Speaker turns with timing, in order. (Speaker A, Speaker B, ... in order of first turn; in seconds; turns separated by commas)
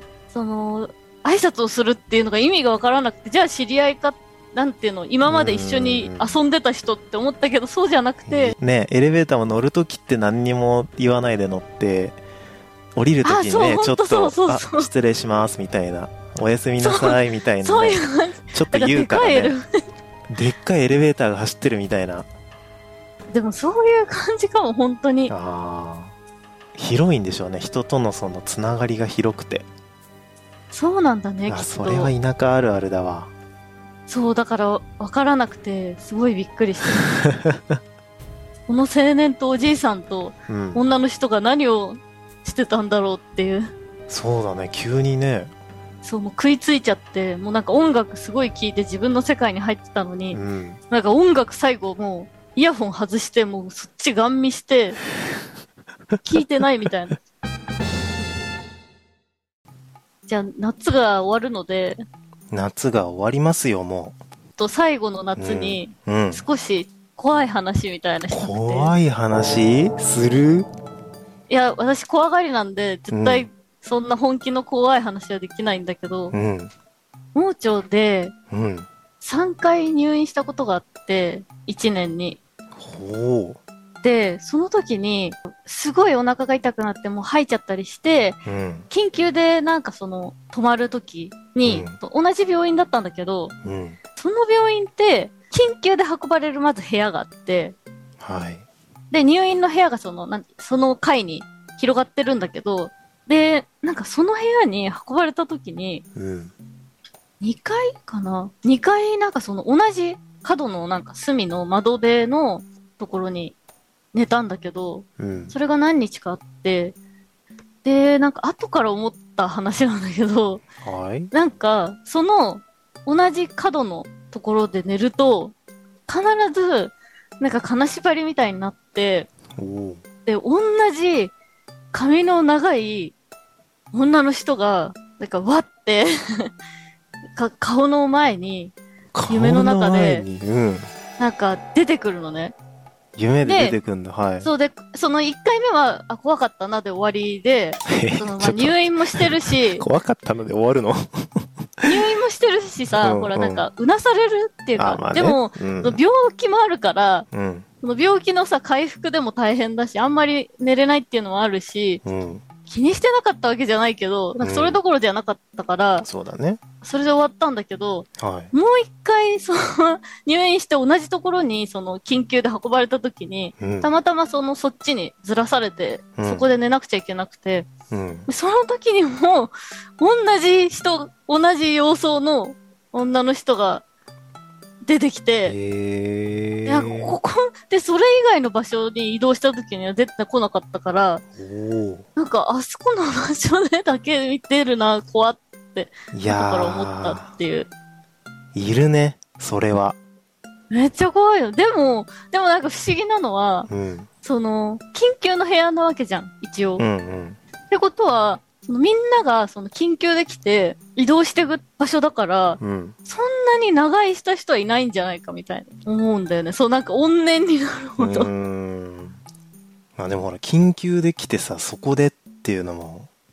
Speaker A: 0.3-8.6, Speaker B: 5.2-6.4, Speaker B: 8.3-12.2, Speaker B: 12.9-19.5, Speaker A: 13.2-14.9, Speaker A: 16.8-19.8, Speaker B: 20.3-22.3, Speaker A: 23.3-25.3, Speaker B: 25.3-26.1, Speaker B: 26.7-29.7, Speaker A: 30.7-32.1, Speaker B: 31.5-33.3, Speaker A: 34.1-37.0, Speaker B: 37.0-37.8, Speaker A: 38.7-43.7, Speaker B: 40.5-40.8, Speaker B: 44.1-45.5, Speaker A: 46.0-55.0, Speaker B: 50.3-50.8, Speaker A: 56.2-57.2, Speaker A: 60.3-62.0, Speaker B: 62.5-64.2, Speaker A: 64.6-68.9, Speaker B: 65.3-66.4, Speaker B: 68.3-70.7, Speaker A: 71.5-76.3, Speaker B: 73.1-73.5, Speaker B: 76.3-76.7, Speaker A: 77.3-78.3, Speaker B: 78.5-78.9, Speaker A: 79.2-82.4, Speaker B: 82.8-83.6, Speaker A: 84.0-93.5, Speaker B: 88.4-88.9, Speaker B: 91.6-92.0, Speaker B: 93.6-94.0, Speaker A: 94.2-97.8, Speaker B: 98.2-98.6, Speaker A: 99.1-106.0, Speaker B: 106.2-106.5, Speaker A: 107.4-113.5, Speaker A: 114.1-117.0, Speaker B: 115.2-115.5, Speaker A: 117.8-120.6, Speaker B: 120.8-121.3, Speaker A: 121.3-125.5, Speaker A: 126.1-129.3, Speaker B: 129.6-130.0, Speaker A: 130.2-131.3, Speaker A: 131.9-133.1, Speaker A: 133.9-136.5, Speaker A: 137.3-138.7, Speaker B: 139.1-140.9, Speaker A: 139.3-140.2, Speaker A: 141.2-142.5, Speaker B: 143.2-144.5, Speaker A: 143.4-143.8, Speaker A: 144.4-149.8, Speaker B: 147.8-151.9, Speaker A: 151.8-157.3, Speaker B: 153.0-153.6, Speaker B: 154.8-156.0, Speaker B: 157.3-157.7, Speaker A: 157.8-162.0, Speaker B: 162.0-162.4, Speaker A: 162.7-166.1, Speaker B: 164.4-164.8, Speaker B: 166.0-166.6, Speaker A: 166.8-177.7, Speaker B: 168.2-168.5, Speaker B: 173.6-173.9, Speaker B: 176.2-176.5, Speaker B: 177.9-178.3, Speaker A: 178.3-183.8, Speaker A: 184.8-185.6, Speaker B: 185.4-187.2, Speaker A: 186.7-191.2, Speaker B: 191.4-192.1, Speaker A: 192.2-197.7, Speaker B: 196.1-197.3, Speaker B: 198.5-200.0, Speaker A: 200.7-203.7, Speaker B: 203.7-204.1, Speaker A: 204.2-206.8, Speaker B: 206.8-207.4, Speaker A: 207.7-218.3, Speaker B: 212.6-212.9, Speaker B: 218.0-219.2, Speaker B: 220.0-223.1